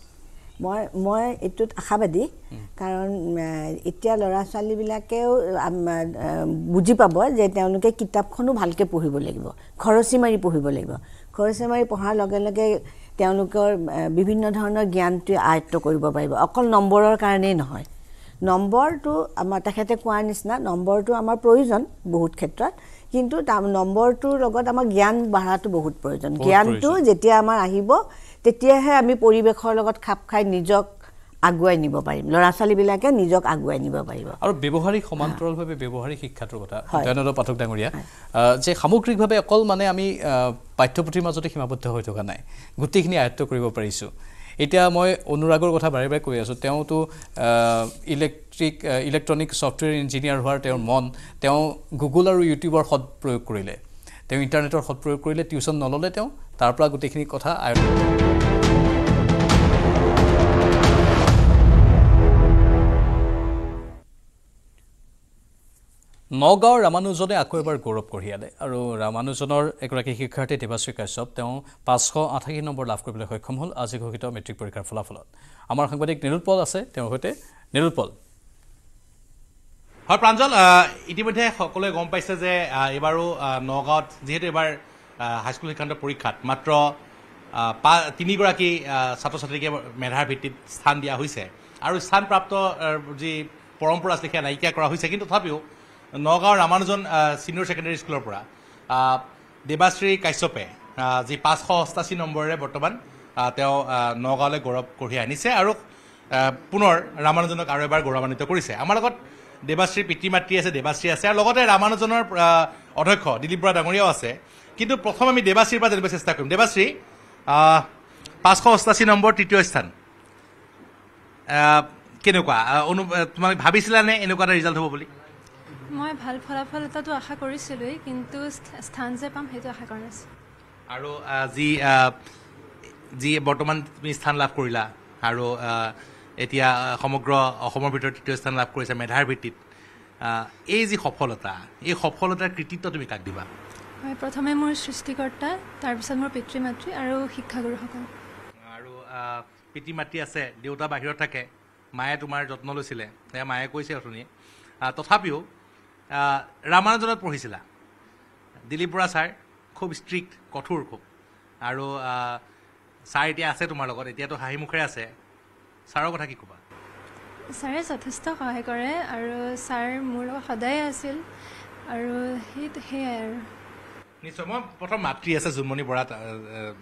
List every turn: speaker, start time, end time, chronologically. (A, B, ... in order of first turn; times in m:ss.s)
0:00.6-0:17.8 A
0:18.5-0:30.9 A
0:26.4-0:27.0 B
0:31.5-0:34.4 A
0:34.4-0:44.1 B
0:44.6-0:53.8 B
0:54.3-0:58.0 B
1:06.4-1:18.1 B
1:20.1-1:24.7 C
1:25.3-1:26.8 C
1:27.7-1:35.6 C
1:36.2-1:38.4 C
1:39.0-1:45.7 C
1:46.4-1:49.2 C
1:49.7-1:56.9 C
1:57.5-1:57.8 C
1:58.4-1:59.9 C
2:01.6-2:05.0 C
2:05.9-2:10.2 D
2:10.9-2:12.1 C
2:13.2-2:15.8 C
2:16.4-2:19.5 C
2:20.5-2:23.4 C
2:24.0-2:28.0 D
2:28.7-2:31.4 C
2:32.0-2:34.2 C
2:34.9-2:35.4 C
2:36.2-2:37.6 C
2:38.7-2:41.0 C
2:41.7-2:42.3 C
2:43.1-2:45.0 C
2:45.9-2:46.6 C
2:47.5-2:51.2 D
2:51.9-2:53.4 D
2:54.2-2:56.1 C